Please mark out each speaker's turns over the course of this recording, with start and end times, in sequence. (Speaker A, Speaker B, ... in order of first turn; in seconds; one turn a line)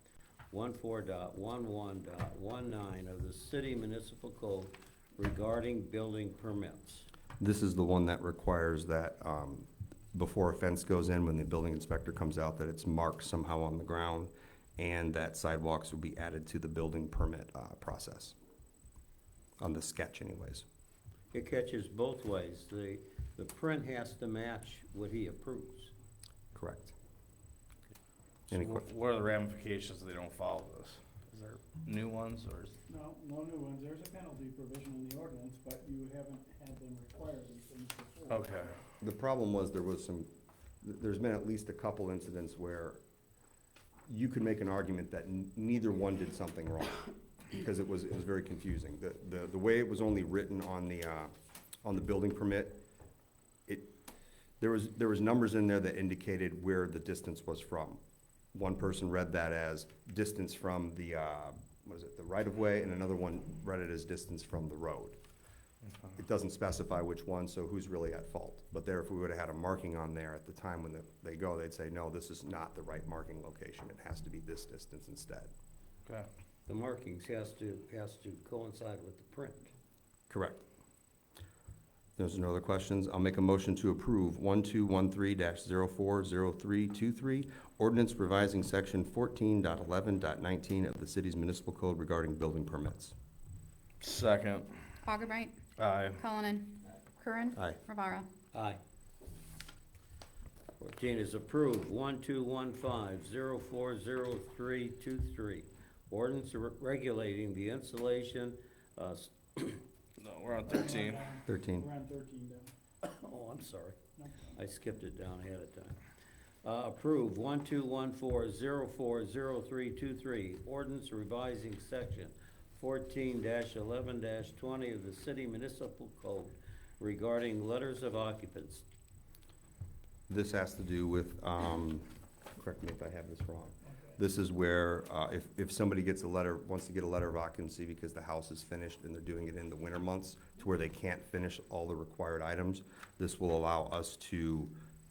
Speaker A: 0.5-7.1
Speaker B: 7.4-18.3
Speaker B: 19.6-20.6
Speaker A: 21.3-25.9
Speaker B: 26.5-26.9
Speaker B: 28.5-28.8
Speaker C: 28.5-32.8
Speaker D: 32.9-38.8
Speaker C: 38.3-38.8
Speaker B: 39.0-40.3
Speaker B: 40.8-43.0
Speaker B: 44.1-51.3
Speaker B: 51.8-52.8
Speaker B: 53.7-53.9
Speaker B: 54.6-58.0
Speaker B: 58.5-65.2
Speaker C: 65.8-66.1
Speaker B: 66.2-75.5
Speaker A: 76.7-79.7
Speaker B: 80.3-80.6
Speaker B: 82.2-93.1
Speaker C: 94.0-94.8
Speaker E: 95.0-95.6
Speaker C: 95.8-96.2
Speaker E: 96.2-98.3
Speaker A: 98.5-98.8
Speaker A: 100.8-109.8
Speaker C: 110.2-111.2
Speaker D: 110.6-112.7
Speaker B: 111.4-111.9
Speaker A: 113.0-114.0
Speaker D: 114.2-114.5
Speaker A: 114.5-116.0
Speaker A: 116.6-128.8
Speaker B: 130.3-144.7